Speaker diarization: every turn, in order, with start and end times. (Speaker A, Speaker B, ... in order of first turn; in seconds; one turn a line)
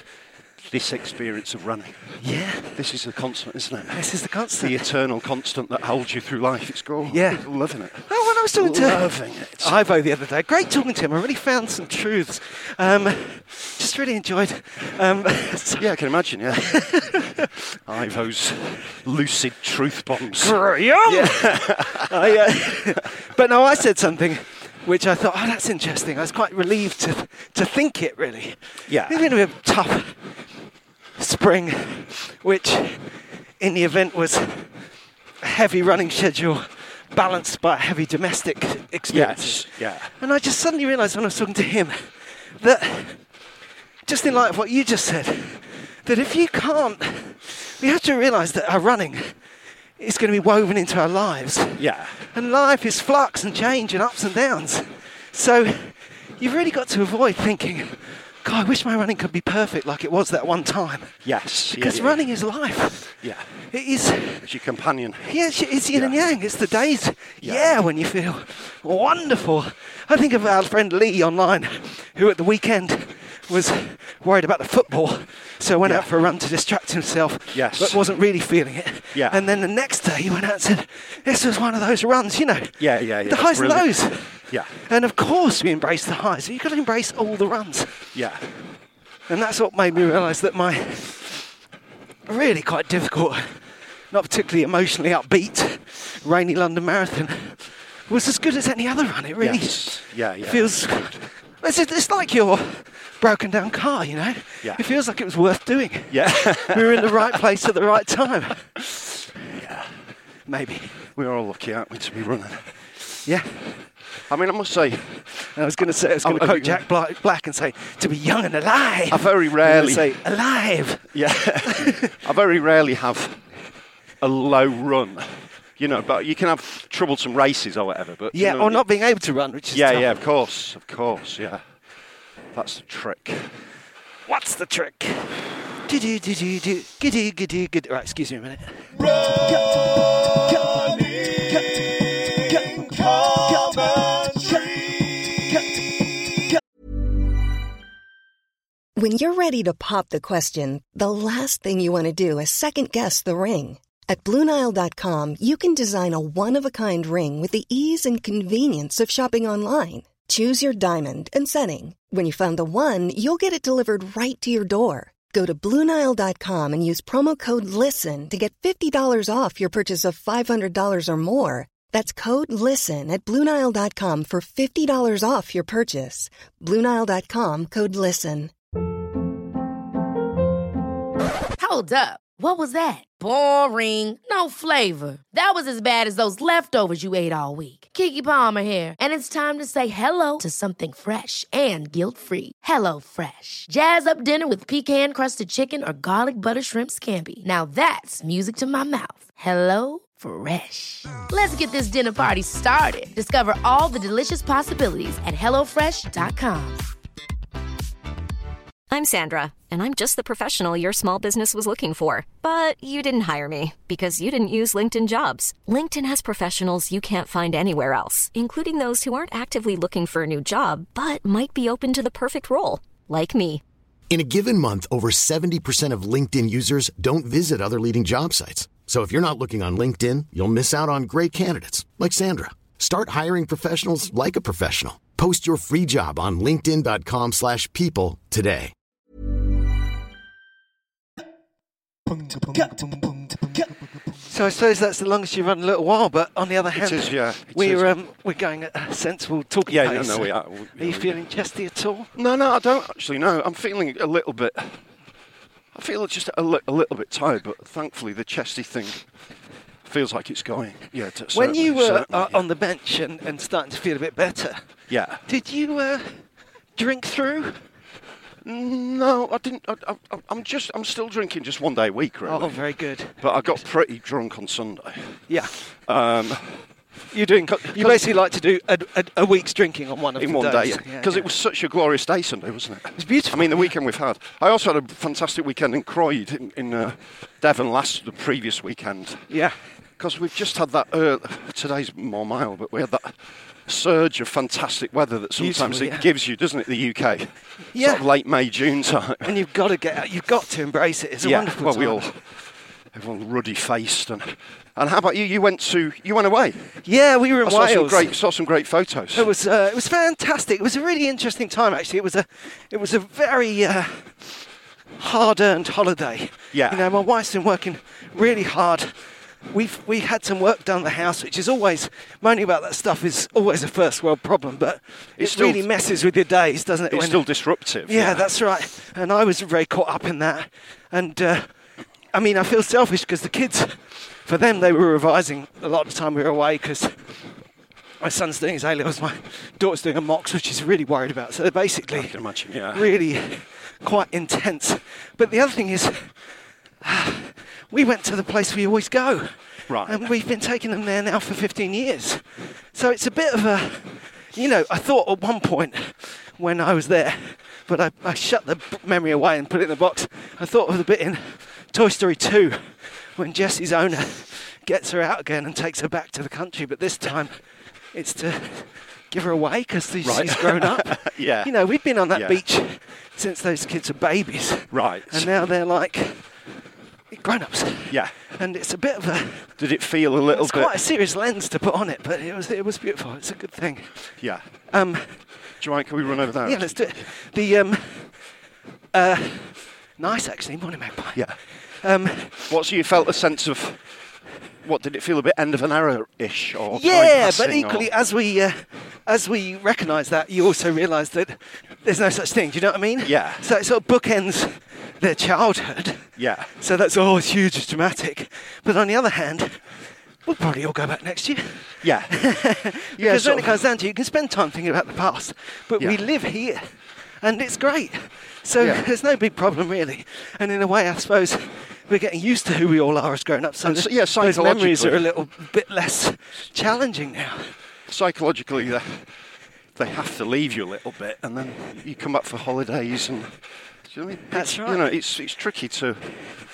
Speaker A: 0.6-2.1
Speaker B: 2.2-2.8
Speaker A: 2.7-4.0
Speaker B: 3.9-4.8
Speaker A: 4.6-9.8
Speaker B: 7.1-7.5
Speaker B: 8.0-15.9
Speaker A: 15.8-23.1
Speaker B: 16.5-17.5
Speaker B: 20.4-30.2
Speaker A: 28.9-29.3
Speaker B: 31.2-34.8
Speaker B: 35.4-43.2
Speaker A: 39.1-40.1
Speaker B: 44.0-49.4
Speaker B: 50.0-61.2
Speaker A: 51.8-52.2
Speaker A: 61.2-62.2
Speaker B: 61.7-63.2
Speaker A: 63.2-63.7
Speaker B: 63.7-64.5
Speaker A: 64.4-65.3
Speaker B: 65.2-88.0
Speaker A: 65.9-66.2
Speaker A: 67.4-67.8
Speaker A: 75.8-76.1
Speaker A: 77.5-78.0
Speaker A: 79.1-79.4
Speaker A: 82.8-84.7
Speaker A: 88.1-88.5
Speaker B: 89.3-91.4
Speaker B: 92.3-108.8
Speaker A: 99.4-100.9
Speaker A: 106.1-107.4
Speaker A: 109.5-110.0
Speaker B: 110.5-111.0
Speaker A: 111.2-112.9
Speaker B: 113.2-113.9
Speaker A: 114.3-115.3
Speaker B: 115.4-122.2
Speaker A: 116.2-116.8
Speaker A: 119.1-120.1
Speaker A: 121.1-123.4
Speaker A: 124.2-128.8
Speaker B: 128.3-130.1
Speaker A: 129.7-131.6
Speaker A: 132.5-133.5
Speaker B: 134.3-144.7
Speaker C: 148.9-178.5
Speaker D: 181.6-206.9
Speaker E: 208.9-223.6
Speaker F: 224.1-238.7
Speaker B: 244.2-252.1
Speaker A: 246.7-247.9
Speaker A: 249.7-251.2
Speaker A: 252.1-254.8
Speaker A: 255.7-259.0
Speaker A: 259.8-262.4
Speaker B: 261.3-264.6
Speaker A: 264.9-265.2
Speaker B: 265.2-266.2
Speaker B: 266.8-267.6
Speaker A: 268.4-272.6
Speaker B: 272.2-273.6
Speaker A: 273.2-276.7
Speaker B: 277.1-281.3
Speaker A: 277.4-278.1
Speaker A: 280.2-289.3
Speaker B: 282.9-283.7
Speaker B: 289.3-289.6
Speaker A: 290.0-299.3
Speaker B: 295.4-296.1
Speaker B: 297.7-298.0
Speaker B: 299.2-302.1
Speaker A: 301.2-302.3
Speaker A: 302.9-306.8
Speaker B: 306.8-308.1
Speaker A: 307.4-309.3
Speaker B: 309.1-314.4
Speaker B: 315.0-331.6
Speaker A: 316.5-316.9
Speaker A: 325.2-325.6
Speaker A: 326.9-328.3
Speaker B: 332.1-336.9
Speaker B: 338.0-342.1
Speaker A: 341.9-342.9
Speaker B: 342.7-346.1
Speaker B: 346.8-367.4
Speaker A: 349.7-350.1
Speaker B: 367.9-376.3
Speaker A: 370.0-372.4
Speaker A: 374.7-375.3
Speaker B: 377.1-379.5
Speaker A: 377.9-378.1
Speaker A: 379.6-380.8
Speaker B: 380.3-384.1
Speaker A: 384.2-384.4
Speaker B: 384.7-385.2
Speaker A: 385.6-387.1
Speaker B: 386.4-388.3
Speaker B: 388.9-392.5
Speaker A: 391.1-391.4
Speaker A: 392.5-393.8
Speaker A: 394.6-397.9
Speaker B: 396.7-409.6
Speaker A: 403.0-403.4
Speaker A: 406.2-406.5
Speaker B: 410.2-416.7
Speaker A: 411.8-412.3
Speaker A: 412.9-413.6
Speaker B: 417.2-427.5
Speaker A: 418.6-418.8
Speaker A: 423.6-425.2
Speaker A: 427.9-429.1
Speaker A: 429.7-436.2
Speaker B: 434.3-434.9